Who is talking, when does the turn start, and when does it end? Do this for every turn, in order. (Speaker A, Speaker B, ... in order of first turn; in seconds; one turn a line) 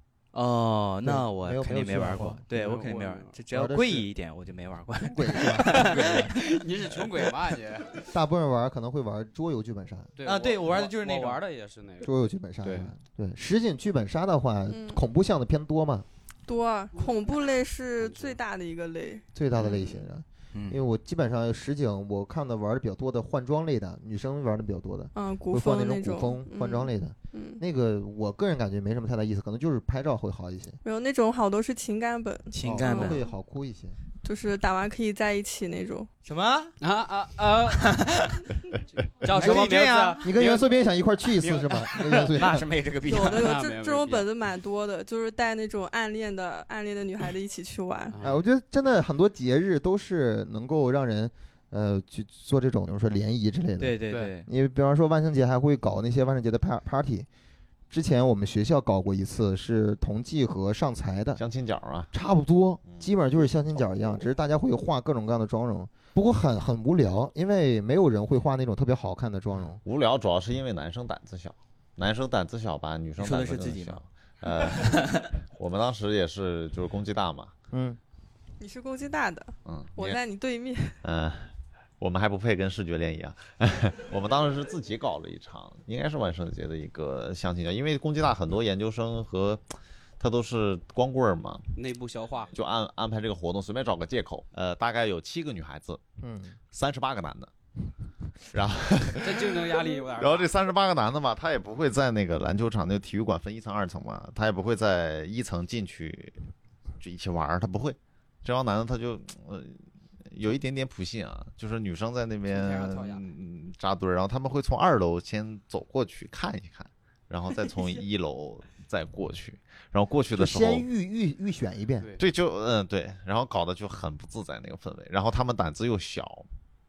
Speaker A: 0.3-6.3
Speaker B: 1.0-2.4
Speaker C: 2.5-3.4
Speaker B: 3.5-4.1
Speaker B: 5.0-6.2
Speaker C: 5.7-8.0
Speaker B: 8.1-10.1
Speaker C: 10.2-12.1
Speaker A: 10.2-11.4
Speaker B: 12.0-16.1
Speaker C: 12.6-12.9
Speaker D: 14.7-15.0
Speaker D: 16.5-19.2
Speaker C: 18.0-18.4
Speaker B: 19.3-30.8
Speaker A: 20.5-20.8
Speaker D: 25.1-27.6
Speaker D: 30.8-33.2
Speaker A: 32.5-33.2
Speaker B: 32.6-34.0
Speaker D: 34.2-36.1
Speaker A: 36.2-36.7
Speaker C: 36.8-38.0
Speaker A: 37.8-38.5
Speaker C: 39.1-40.6
Speaker A: 39.2-40.4
Speaker B: 39.4-39.7
Speaker B: 40.2-42.7
Speaker C: 41.4-42.3
Speaker A: 42.2-43.6
Speaker D: 43.1-48.1
Speaker C: 43.1-44.3
Speaker C: 48.1-48.4
Speaker B: 48.2-57.3
Speaker A: 53.8-54.5
Speaker B: 57.9-61.4
Speaker E: 61.4-62.1
Speaker B: 62.1-69.8
Speaker E: 69.8-77.5
Speaker A: 73.2-74.0
Speaker A: 74.6-75.2
Speaker B: 77.7-78.0
Speaker D: 78.6-81.0
Speaker E: 79.7-80.2
Speaker E: 81.0-89.6
Speaker E: 90.2-91.7
Speaker C: 91.7-92.5
Speaker E: 92.5-96.0
Speaker B: 96.2-96.5
Speaker E: 96.7-97.5
Speaker E: 98.5-106.3
Speaker C: 99.2-100.5
Speaker E: 107.0-109.8
Speaker E: 110.3-120.8
Speaker C: 112.5-113.2
Speaker B: 120.3-122.1
Speaker E: 122.2-126.5